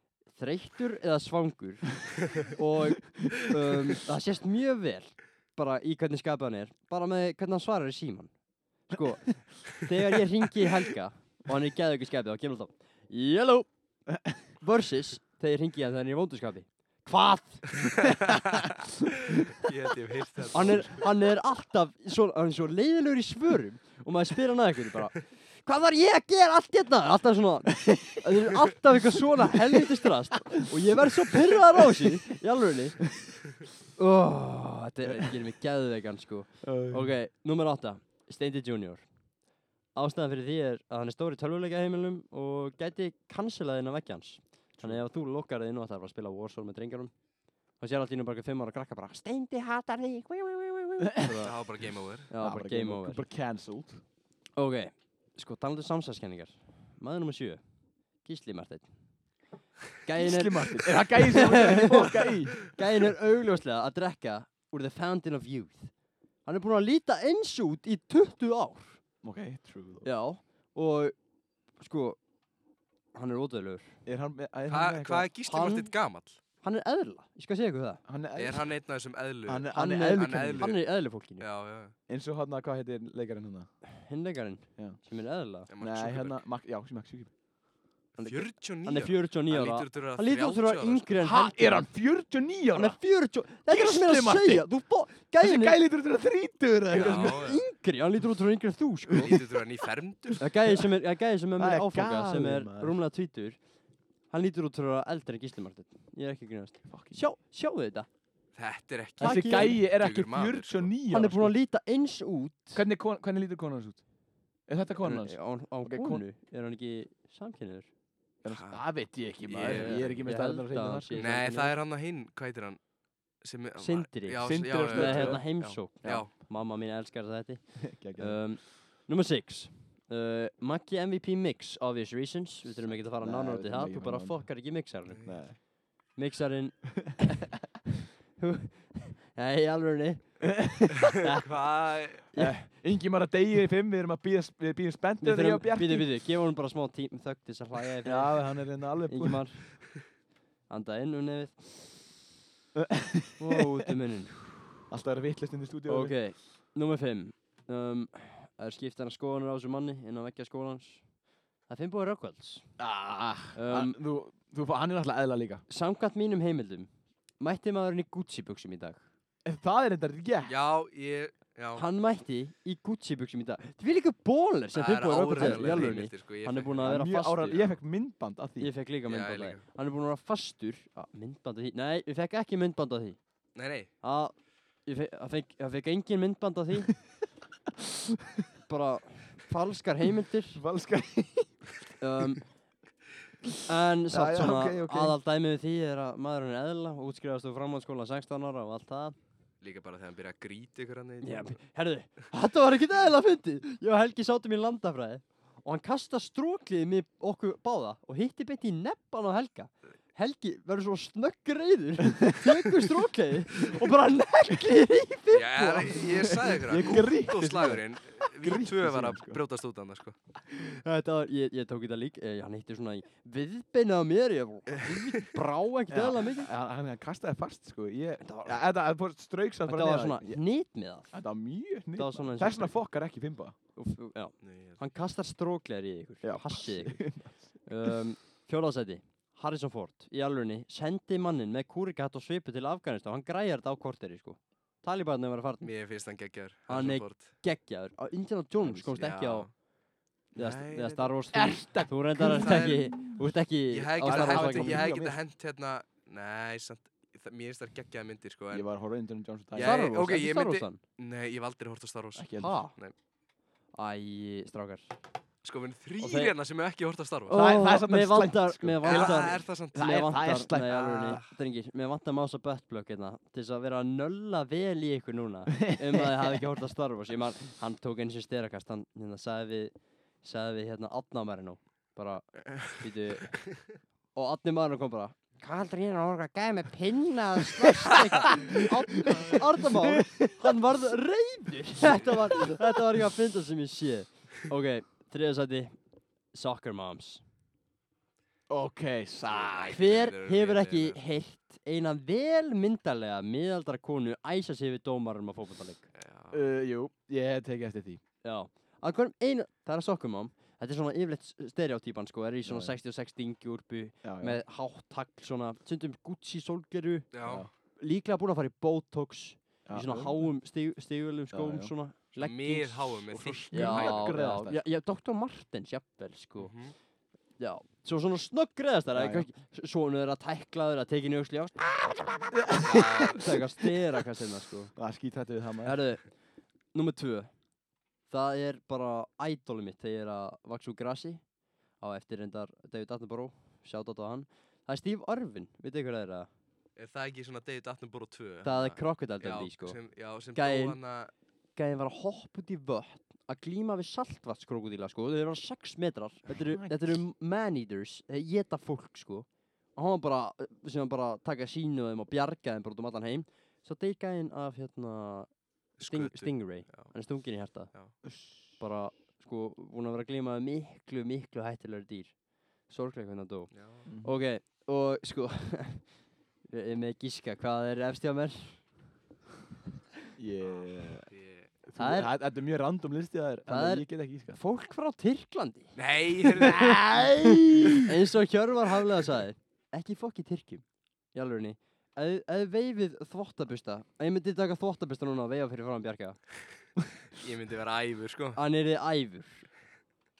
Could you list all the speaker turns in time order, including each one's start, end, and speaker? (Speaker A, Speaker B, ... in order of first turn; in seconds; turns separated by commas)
Speaker A: 0.3-8.3, Speaker A: 8.9-13.7, Speaker B: 14.1-14.4, Speaker A: 14.6-18.1, Speaker C: 17.8-21.1, Speaker A: 20.5-33.2, Speaker A: 34.0-39.1, Speaker B: 36.6-37.1, Speaker A: 39.9-47.1, Speaker B: 44.8-45.0, Speaker A: 47.8-51.6, Speaker B: 51.0-51.5, Speaker C: 51.4-52.3, Speaker A: 52.3-53.2, Speaker B: 52.4-54.0, Speaker A: 54.6-57.6, Speaker A: 58.2-58.9, Speaker A: 60.0-65.9, Speaker B: 60.1-62.7, Speaker A: 66.4-69.0, Speaker B: 69.2-70.1, Speaker A: 70.0-71.1, Speaker A: 71.8-72.2, Speaker A: 73.1-74.0, Speaker B: 74.0-75.3, Speaker C: 74.7-76.4, Speaker A: 75.5-75.9, Speaker A: 76.6-78.0, Speaker B: 78.0-78.7, Speaker C: 78.3-81.9, Speaker B: 79.5-80.7, Speaker A: 79.7-81.5, Speaker B: 82.1-83.7, Speaker A: 84.0-85.7, Speaker C: 85.7-86.4, Speaker B: 85.8-87.3, Speaker A: 88.2-91.9, Speaker C: 88.2-91.1, Speaker B: 91.2-93.0, Speaker A: 92.7-95.8, Speaker B: 93.7-94.7, Speaker B: 95.4-97.5, Speaker A: 96.9-99.4, Speaker C: 96.9-97.7, Speaker C: 99.2-100.5, Speaker A: 100.4-103.6, Speaker B: 101.6-103.0, Speaker A: 104.3-108.1, Speaker B: 106.8-107.2, Speaker C: 108.5-110.9, Speaker B: 109.2-111.5, Speaker A: 109.2-109.8, Speaker A: 111.1-112.8, Speaker B: 112.7-114.0, Speaker B: 114.7-116.2, Speaker A: 115.0-117.9, Speaker B: 118.4-121.2, Speaker C: 118.5-118.9, Speaker C: 119.4-120.0, Speaker A: 119.6-121.7, Speaker C: 121.1-122.8, Speaker C: 123.4-126.3, Speaker A: 123.8-135.4, Speaker B: 124.4-126.2, Speaker B: 127.8-128.4, Speaker B: 133.2-134.5, Speaker B: 135.2-135.6, Speaker A: 136.1-137.4, Speaker A: 138.4-140.6, Speaker B: 140.4-141.1, Speaker C: 141.1-142.3, Speaker A: 141.2-141.5, Speaker A: 142.3-142.7, Speaker B: 142.3-146.1, Speaker A: 145.2-150.0, Speaker B: 148.0-149.4, Speaker A: 150.7-152.1, Speaker B: 152.7-153.9, Speaker A: 153.4-154.6, Speaker B: 154.9-156.2, Speaker A: 155.9-161.1, Speaker A: 161.7-162.7, Speaker B: 162.8-165.6, Speaker A: 163.5-164.0, Speaker A: 165.7-166.9, Speaker A: 167.4-169.0, Speaker B: 169.4-170.5, Speaker C: 170.5-171.8, Speaker A: 171.7-177.7, Speaker C: 174.7-176.9, Speaker B: 175.3-176.0, Speaker B: 176.8-178.7, Speaker A: 178.6-183.2, Speaker C: 179.1-179.6, Speaker C: 183.5-183.9, Speaker A: 184.0-186.9, Speaker B: 188.1-188.4, Speaker A: 188.7-190.6, Speaker B: 190.5-192.3, Speaker A: 192.0-192.4, Speaker A: 193.7-199.2, Speaker B: 194.1-195.2, Speaker C: 199.6-201.6, Speaker A: 201.2-216.6, Speaker B: 212.5-212.9, Speaker B: 213.6-213.9, Speaker C: 215.3-220.2, Speaker B: 216.2-219.4, Speaker A: 220.5-226.5, Speaker B: 225.9-230.4, Speaker A: 228.2-228.6, Speaker A: 229.7-231.2, Speaker B: 231.1-233.6, Speaker A: 231.9-232.7, Speaker A: 233.8-237.1, Speaker C: 234.4-234.8, Speaker B: 236.2-238.0, Speaker A: 237.6-245.7, Speaker C: 245.6-247.3, Speaker A: 246.7-249.5, Speaker B: 248.6-248.9, Speaker C: 248.9-249.5, Speaker C: 250.3-251.2, Speaker A: 250.3-254.9, Speaker B: 251.3-253.3, Speaker C: 252.2-252.9, Speaker C: 253.7-258.7, Speaker B: 254.0-255.2, Speaker B: 258.5-259.8, Speaker C: 259.5-262.9, Speaker A: 259.6-260.8, Speaker B: 262.1-262.6, Speaker A: 262.4-262.7, Speaker A: 263.7-265.0, Speaker C: 265.4-267.4, Speaker A: 266.0-266.3, Speaker A: 267.3-283.6, Speaker B: 267.3-271.2, Speaker C: 268.8-269.9, Speaker C: 270.7-271.3, Speaker B: 275.6-276.4, Speaker A: 284.1-295.8, Speaker B: 289.0-290.6, Speaker B: 291.8-292.6, Speaker A: 296.3-297.2, Speaker B: 298.5-299.8, Speaker C: 299.2-301.0, Speaker A: 299.7-305.9, Speaker C: 305.9-306.5, Speaker B: 306.3-308.0, Speaker A: 308.2-317.1, Speaker B: 312.4-312.7, Speaker B: 314.0-314.4, Speaker C: 317.1-317.5, Speaker B: 317.2-317.5, Speaker A: 317.8-326.5, Speaker B: 319.6-320.3, Speaker B: 321.3-321.7, Speaker C: 322.2-324.1, Speaker B: 323.1-324.6, Speaker C: 326.4-326.7, Speaker A: 327.4-334.7, Speaker B: 328.9-329.3, Speaker B: 332.3-333.2, Speaker C: 332.6-333.3, Speaker B: 334.7-335.8, Speaker A: 335.6-336.1, Speaker A: 336.7-337.3, Speaker A: 338.1-341.2, Speaker A: 341.8-346.3, Speaker C: 346.8-351.1, Speaker A: 348.4-349.8, Speaker A: 350.3-350.8, Speaker A: 351.6-368.0, Speaker C: 365.8-368.0, Speaker B: 368.1-368.3, Speaker A: 368.6-378.7, Speaker C: 373.5-373.9, Speaker B: 373.9-374.2, Speaker B: 380.1-381.1, Speaker C: 381.1-381.5, Speaker B: 381.7-384.4, Speaker A: 381.8-382.1, Speaker A: 383.5-385.8, Speaker C: 385.7-386.8, Speaker B: 386.3-387.9, Speaker A: 386.4-396.2, Speaker C: 397.1-398.4, Speaker A: 398.3-399.5